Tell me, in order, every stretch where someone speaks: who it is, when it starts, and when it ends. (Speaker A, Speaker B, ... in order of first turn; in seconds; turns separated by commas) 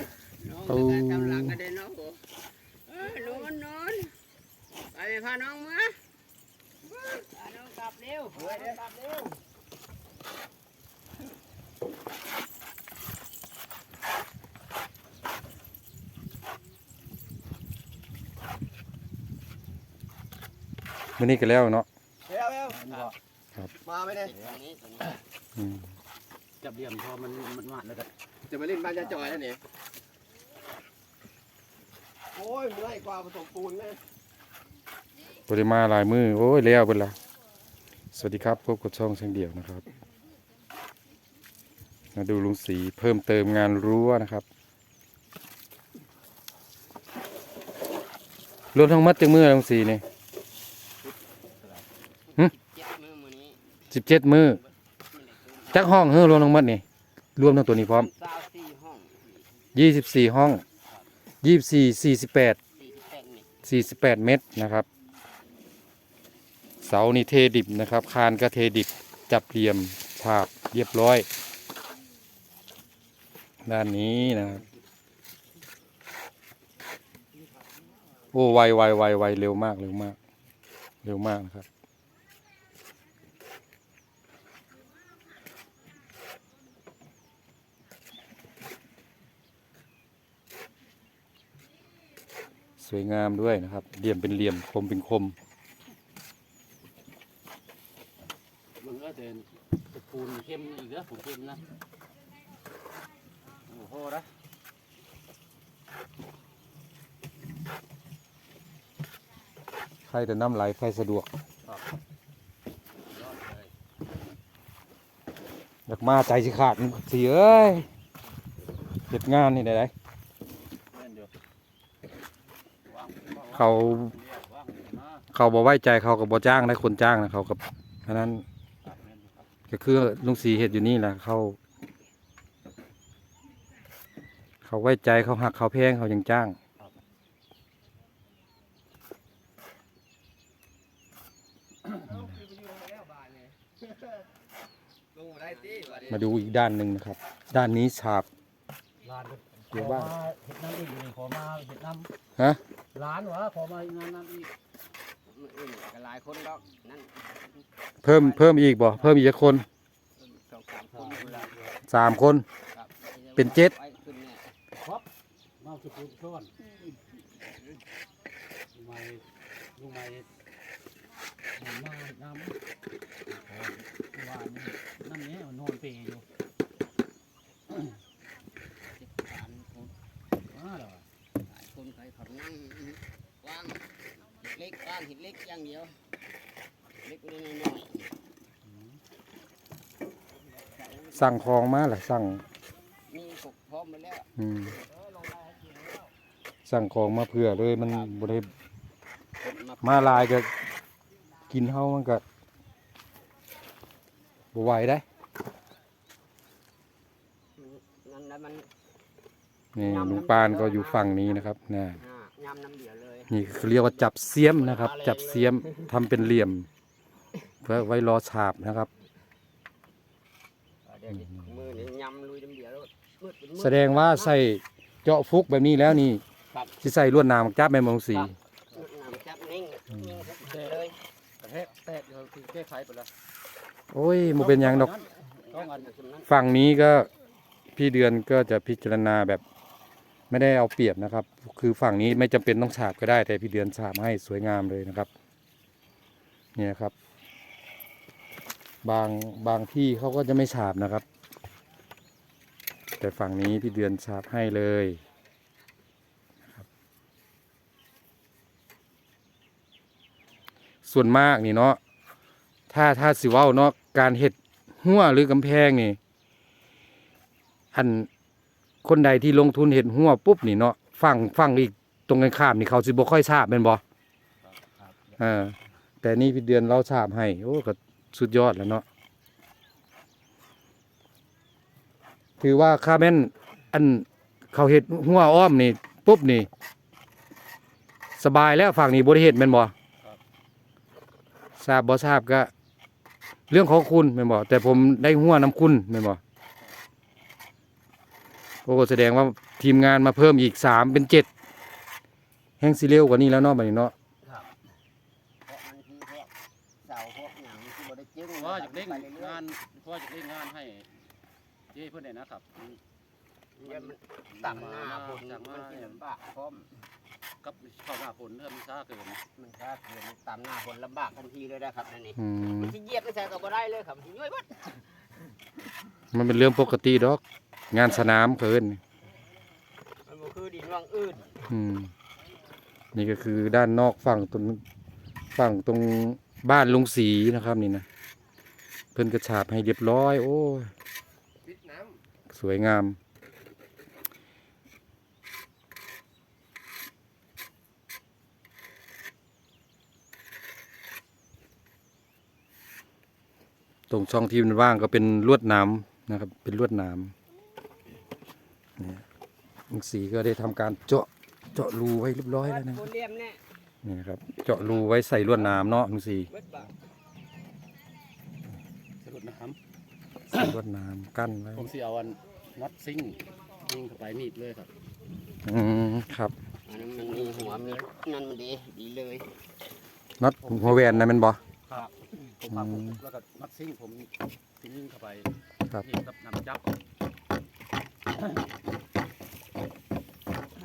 Speaker A: 0.4-2.3, Speaker B: 0.7-1.6, Speaker A: 2.9-4.1, Speaker A: 4.9-6.0, Speaker A: 6.9-9.3, Speaker B: 21.2-21.9, Speaker C: 22.3-22.6, Speaker D: 22.4-23.1, Speaker A: 23.9-25.2, Speaker B: 25.6-25.9, Speaker D: 26.6-28.1, Speaker C: 28.5-29.4, Speaker D: 28.8-29.4, Speaker C: 32.4-34.0, Speaker B: 35.5-37.1, Speaker B: 38.1-39.8, Speaker B: 42.1-44.4, Speaker B: 48.7-50.0, Speaker D: 51.0-51.8, Speaker A: 52.3-53.6, Speaker B: 53.9-54.6, Speaker A: 55.1-56.0, Speaker B: 55.7-56.8, Speaker B: 57.4-58.1, Speaker A: 57.9-59.5, Speaker B: 59.7-60.6, Speaker B: 61.4-62.6, Speaker A: 62.8-63.5, Speaker B: 63.6-64.8, Speaker B: 66.8-71.2, Speaker B: 73.6-74.6, Speaker B: 78.3-80.2, Speaker B: 81.0-81.7, Speaker B: 92.8-95.3, Speaker D: 98.8-101.6, Speaker D: 103.7-104.3, Speaker B: 110.1-111.3, Speaker B: 115.9-117.9, Speaker B: 119.0-119.9, Speaker D: 120.9-121.3, Speaker D: 122.8-125.2, Speaker B: 123.5-124.1, Speaker B: 125.3-128.4, Speaker D: 128.8-129.5, Speaker B: 129.7-131.6, Speaker B: 134.6-136.6, Speaker C: 142.4-143.5, Speaker A: 145.2-146.2, Speaker B: 146.1-148.3, Speaker D: 149.0-152.1, Speaker B: 149.7-150.2, Speaker D: 152.9-154.5, Speaker A: 155.3-157.6, Speaker B: 158.0-159.7, Speaker A: 160.2-161.5, Speaker D: 160.9-161.7, Speaker B: 161.9-162.4, Speaker A: 162.7-164.5, Speaker B: 163.4-163.7, Speaker D: 164.8-165.1, Speaker D: 165.6-166.5, Speaker D: 168.7-169.2, Speaker D: 169.7-170.3, Speaker D: 171.6-172.5, Speaker D: 173.4-176.2, Speaker A: 178.9-179.9, Speaker D: 180.5-181.0, Speaker A: 181.5-186.0, Speaker A: 187.0-188.1, Speaker A: 190.7-191.4, Speaker B: 191.1-192.4, Speaker A: 193.1-194.3, Speaker B: 194.4-194.8, Speaker A: 194.9-196.0, Speaker B: 196.7-198.5, Speaker A: 197.8-198.3, Speaker A: 199.4-200.3, Speaker B: 199.8-200.5, Speaker B: 201.5-202.2, Speaker B: 204.5-205.0, Speaker A: 207.6-208.7, Speaker B: 209.7-212.0, Speaker A: 209.8-215.9, Speaker B: 213.3-216.7, Speaker B: 217.6-218.9, Speaker A: 220.8-224.4, Speaker B: 223.6-226.2, Speaker B: 226.8-228.3, Speaker A: 228.1-231.0, Speaker D: 230.4-230.8, Speaker D: 231.4-233.1, Speaker B: 233.9-234.9, Speaker D: 234.3-235.9, Speaker A: 235.5-236.3, Speaker B: 236.3-237.1, Speaker B: 237.7-239.4, Speaker B: 240.3-245.1, Speaker B: 246.6-246.9, Speaker B: 248.8-251.0, Speaker B: 253.0-255.0, Speaker B: 260.8-261.8, Speaker B: 262.7-266.0, Speaker B: 267.7-268.1, Speaker B: 268.8-273.8, Speaker B: 275.2-278.8, Speaker B: 282.4-286.5, Speaker B: 288.2-289.7, Speaker B: 291.6-292.5, Speaker B: 293.5-296.2, Speaker B: 298.6-301.3, Speaker B: 302.6-303.9, Speaker A: 304.2-304.5, Speaker A: 305.4-306.3, Speaker A: 306.8-309.4, Speaker D: 308.4-311.0, Speaker D: 311.7-312.8, Speaker A: 313.6-316.7, Speaker D: 313.6-316.0, Speaker D: 317.4-319.2, Speaker A: 319.4-325.0, Speaker B: 322.2-322.7, Speaker B: 326.1-328.8, Speaker A: 330.0-331.4, Speaker B: 331.5-331.9, Speaker B: 332.9-334.6, Speaker B: 335.3-337.8, Speaker B: 338.9-340.7, Speaker B: 342.3-343.0, Speaker B: 353.9-357.1, Speaker B: 358.8-359.0, Speaker B: 359.7-362.9, Speaker A: 362.4-363.4, Speaker B: 363.8-366.3, Speaker A: 366.3-366.7, Speaker D: 369.0-369.6, Speaker B: 370.3-371.7, Speaker D: 370.3-370.6, Speaker D: 371.6-374.7, Speaker B: 375.4-376.3, Speaker A: 376.6-379.3, Speaker D: 376.9-377.8, Speaker B: 380.2-381.4, Speaker D: 380.4-381.1, Speaker D: 381.7-385.3, Speaker B: 382.5-383.0, Speaker D: 385.8-386.6